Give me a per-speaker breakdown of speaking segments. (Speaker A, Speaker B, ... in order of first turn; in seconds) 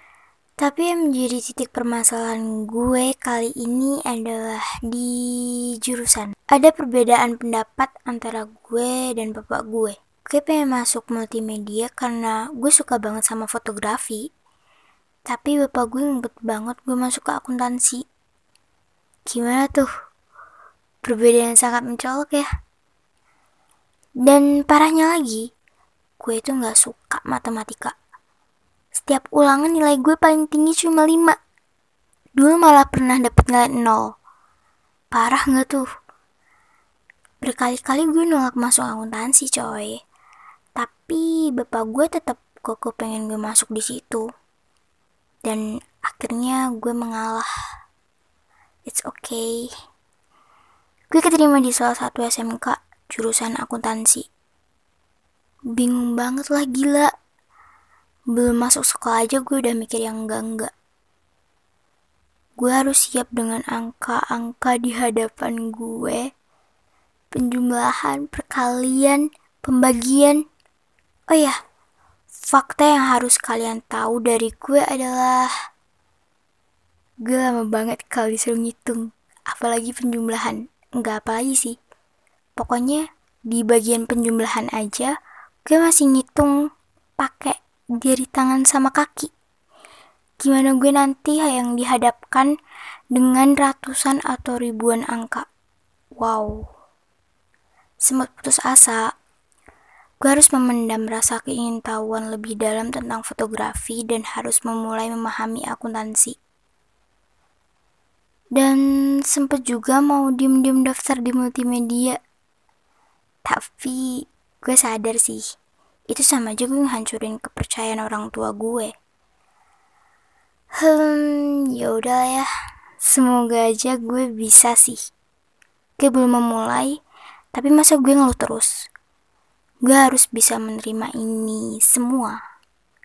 Speaker A: 0.6-14.3, 15.3-18.0, 19.3-19.9, 21.0-22.5, 24.2-25.5, 26.2-27.9, 28.9-31.4, 32.4-34.1, 35.1-35.9, 37.4-40.0, 40.8-44.2, 45.4-47.5, 48.9-49.7, 51.1-54.2, 55.8-57.1, 58.3-60.7, 62.6-66.2, 67.3-70.4, 71.3-71.6, 72.5-75.5, 77.2-81.8, 82.6-85.1, 85.7-86.5, 87.2-89.3, 90.4-92.5, 93.1-95.5, 96.2-96.6, 98.0-99.1, 100.2-106.4, 108.6-112.2, 113.4-115.4, 116.1-118.9, 120.8-122.5, 123.0-125.0, 126.0-127.0, 127.5-128.7, 129.8-132.4